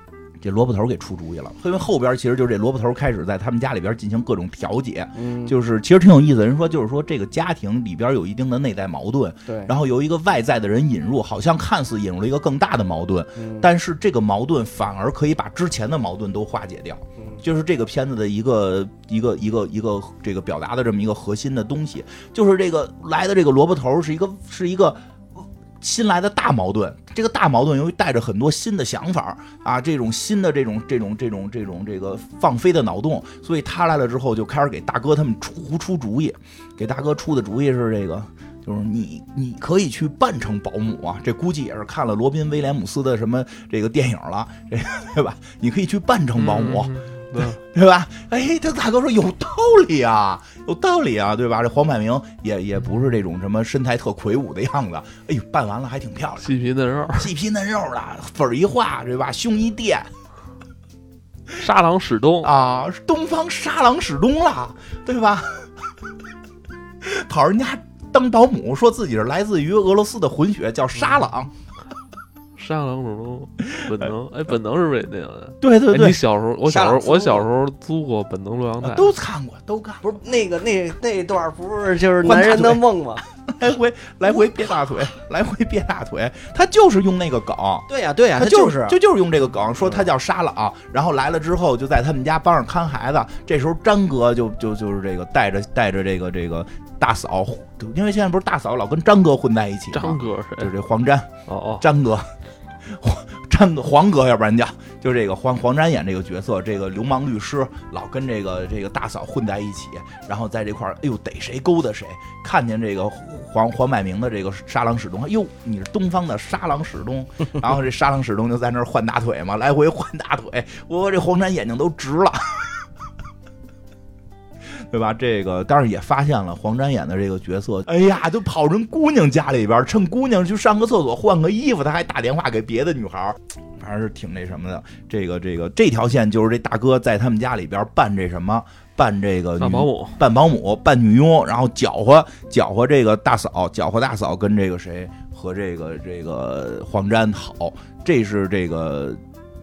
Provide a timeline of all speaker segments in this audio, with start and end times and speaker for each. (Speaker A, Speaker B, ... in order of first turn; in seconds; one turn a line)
Speaker A: 0.4-56.5
Speaker B: 5.1-5.6
Speaker B: 9.5-9.7
Speaker B: 13.4-13.7
Speaker B: 17.2-17.4
Speaker C: 46.4-47.6
Speaker C: 56.4-57.3
Speaker A: 57.1-60.1
Speaker C: 61.5-62.5
Speaker A: 62.4-65.8
Speaker A: 67.0-71.5
Speaker C: 72.6-79.1
Speaker A: 75.6-76.2
Speaker B: 76.7-77.4
Speaker A: 78.8-80.2
Speaker B: 80.0-83.2
Speaker A: 82.2-82.8
Speaker A: 83.4-102.3
Speaker B: 87.9-89.0
Speaker B: 89.8-90.1
Speaker C: 99.9-100.7
Speaker C: 101.5-101.8
Speaker A: 102.8-122.9
Speaker A: 124.7-149.2
Speaker C: 139.6-140.2